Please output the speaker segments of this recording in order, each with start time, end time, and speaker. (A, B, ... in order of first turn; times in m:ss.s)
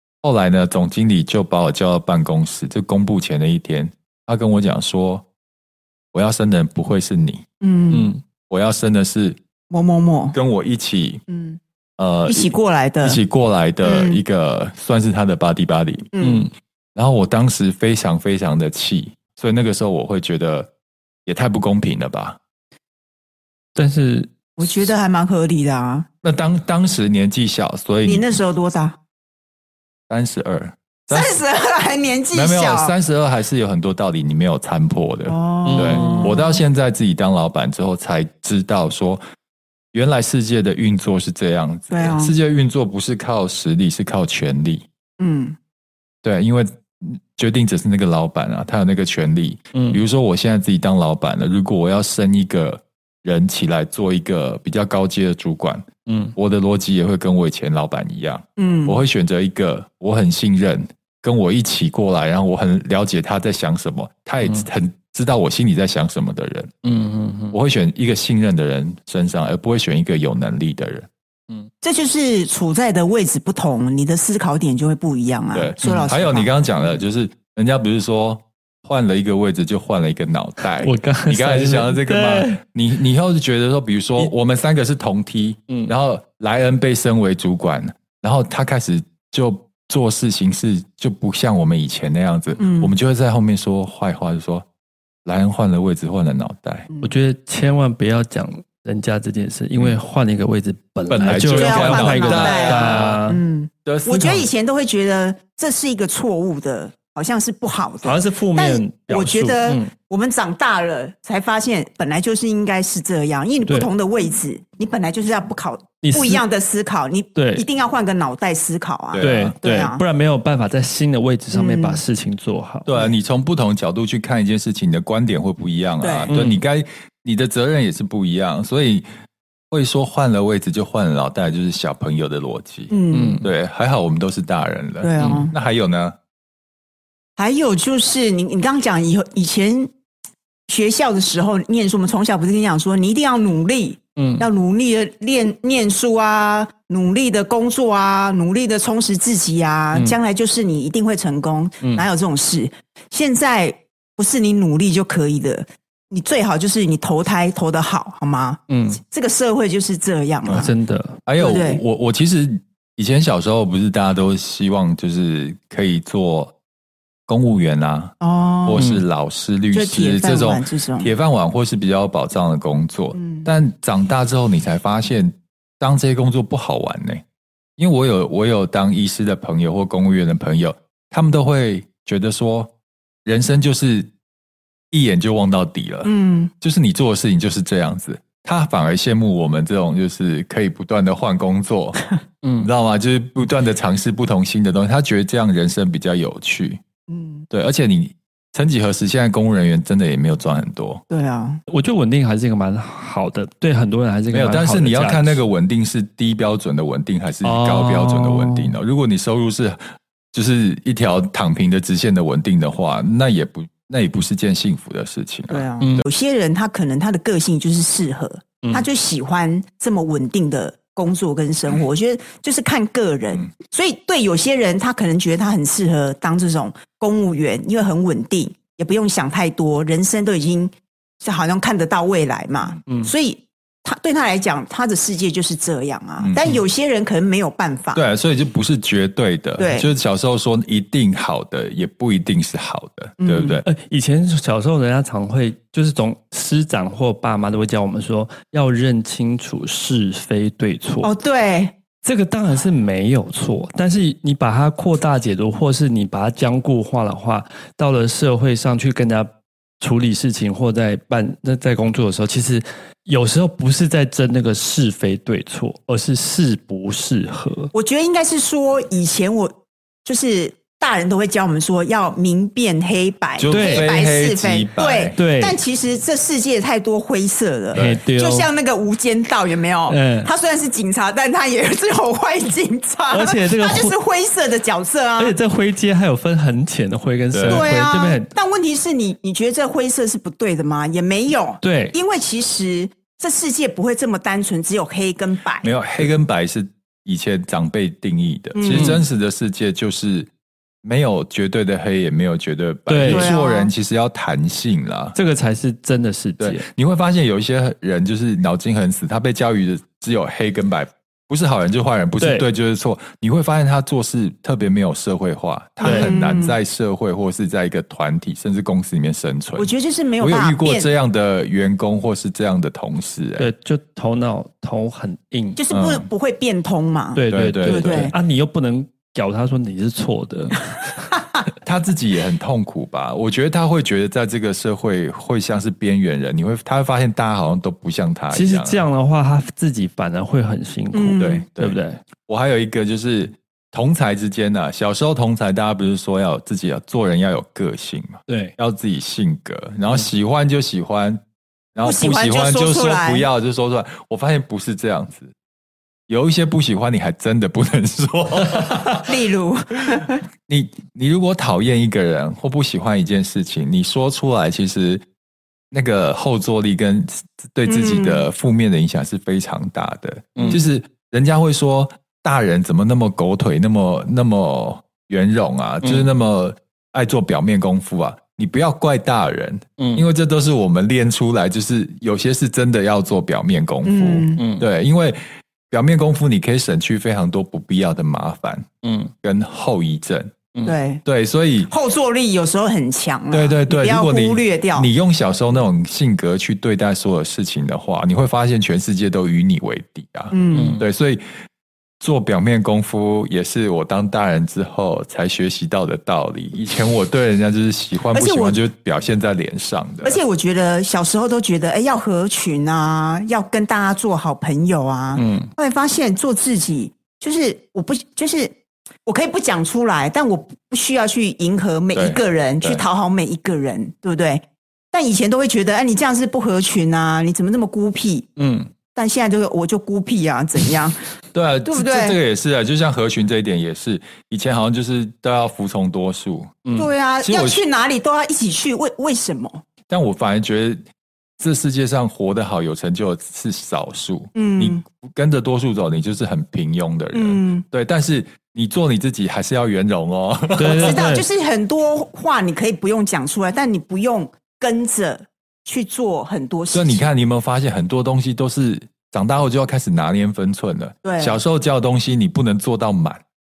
0:00.2-0:05.2 A
0:06.1-0:07.4 A
0:07.6-0:08.1 B
0:07.9-0:08.2 C
0:08.5-0:09.4 A
0:09.7-0:10.4 B
0:10.3-0:11.2 A
0:11.3-0:11.6 B
0:12.0-0:16.1 A
0:12.2-0:13.2 B
0:13.8-0:14.2 B
0:16.1-0:16.5 B
0:16.2-0:16.5 C
0:16.9-0:20.7 A
0:21.2-0:22.4 A
0:23.8-0:24.3 C
0:24.6-0:26.1 B
0:26.2-0:28.2 A
0:28.0-0:29.0 B
0:30.1-0:31.4 A
0:31.1-0:32.9 B
0:32.3-0:39.2 A
0:35.3-0:36.6 B
0:35.6-0:36.3 C
0:39.9-0:44.8 A
0:41.9-0:42.3 B
0:45.2-0:45.6 B
0:46.2-1:06.7 A
0:49.7-0:50.0 C
0:56.0-0:56.3 C
0:58.6-0:59.0 B
1:06.8-1:07.6 C
1:07.5-1:11.1 A
1:11.8-1:16.5 B
1:15.5-1:34.6 A
1:15.8-1:16.1 C
1:20.8-1:22.6 C
1:25.7-1:25.9 C
1:32.6-1:32.9 B
1:35.2-1:36.9 A
1:37.0-1:43.4 C
1:41.1-1:43.2 A
1:41.4-2:00.0 B
1:43.8-1:44.5 A
1:48.0-1:49.9 C
1:56.0-1:56.4 C
1:57.3-1:57.6 C
1:59.1-1:59.5 A
1:59.2-2:03.0 C
2:01.5-2:02.0 B
2:02.8-2:09.0 A
2:06.0-2:06.3 B
2:06.3-2:06.6 C
2:09.7-2:16.2 A
2:12.9-2:13.4 B
2:13.1-2:13.5 C
2:15.0-2:15.5 B
2:15.2-2:15.5 C
2:17.4-2:19.9 B
2:20.7-2:40.7 B
2:24.2-2:24.5 C
2:38.7-2:39.0 C
2:40.5-2:41.2 C
2:41.2-2:46.5 A
2:41.4-2:41.8 B
2:47.3-2:57.2 A
2:48.2-2:48.8 B
2:48.8-2:49.0 C
2:49.7-2:51.1 B
2:53.1-2:53.4 B
2:57.8-3:02.7 A
3:03.2-3:04.1 A
3:04.9-3:12.0 A
3:06.0-3:06.5 B
3:12.4-3:12.7 C
3:12.6-3:16.8 A
3:17.1-3:17.4 B
3:17.5-3:21.0 A
3:21.1-3:21.6 B
3:21.7-3:25.4 C
3:24.3-3:29.8 A
3:27.4-3:28.7 C
3:30.3-3:35.7 A
3:35.5-3:58.0 B
3:35.8-3:36.0 C
3:56.2-3:56.5 A
3:57.9-4:03.6 A
3:59.6-3:59.9 B
4:03.2-4:03.6 B
4:03.6-4:11.1 C
4:11.0-4:11.7 B
4:12.0-4:19.3 C
4:19.8-4:27.7 C
4:27.7-4:45.4 B
4:33.4-4:35.2 A
4:33.5-4:33.9 C
4:35.1-4:35.6 C
4:37.7-4:38.0 A
4:37.7-4:38.5 C
4:39.9-4:40.3 C
4:43.1-4:43.9 C
4:45.2-4:48.3 C
4:47.3-4:47.6 A
4:47.5-4:55.7 B
4:51.6-4:52.0 C
4:55.6-5:00.3 A
4:58.5-4:59.0 B
4:58.7-4:59.0 C
5:00.8-5:05.2 A
5:02.9-5:03.3 C
5:03.0-5:03.7 B
5:05.1-5:06.6 C
5:06.4-5:23.5 A
5:12.2-5:12.4 C
5:15.8-5:16.6 B
5:15.8-5:16.1 C
5:19.6-5:20.9 B
5:23.4-5:25.6 C
5:25.6-5:28.1 B
5:25.7-5:26.1 A
5:27.2-5:30.9 C
5:27.3-5:28.1 A
5:31.6-5:38.8 A
5:38.3-5:42.0 C
5:40.9-5:41.4 B
5:41.2-5:51.2 A
5:48.3-5:48.5 C
5:51.7-5:55.3 A
5:51.8-5:53.2 B
5:56.1-5:59.1 A
5:58.5-5:58.8 C
5:59.0-6:00.2 B
6:00.5-6:05.0 A
6:05.7-6:25.2 A
6:07.6-6:08.3 B
6:10.3-6:10.6 C
6:15.8-6:16.1 C
6:19.8-6:20.0 C
6:23.8-6:24.4 B
6:24.4-6:24.7 C
6:25.7-6:28.7 A
6:28.8-6:29.1 C
6:29.2-6:30.3 A
6:30.6-6:31.0 B
6:31.0-6:31.7 A
6:31.7-6:34.9 B
6:33.3-6:41.2 A
6:40.3-6:40.8 B
6:40.5-6:40.8 C
6:42.0-6:50.2 A
6:48.1-6:48.6 B
6:50.0-6:58.5 B
6:55.1-6:55.5 C
6:59.0-7:08.3 B
7:01.9-7:02.8 A
7:08.4-7:08.7 C
7:08.9-7:11.0 B
7:11.3-7:16.6 A
7:11.6-7:12.2 B
7:16.6-7:16.9 C
7:16.8-7:19.6 B
7:17.2-7:17.6 A
7:19.9-7:20.8 A
7:21.4-7:31.0 A
7:24.3-7:24.8 B
7:27.1-7:27.6 B
7:30.6-7:31.2 C
7:30.7-7:37.0 B
7:36.7-7:43.2 A
7:41.0-7:41.4 B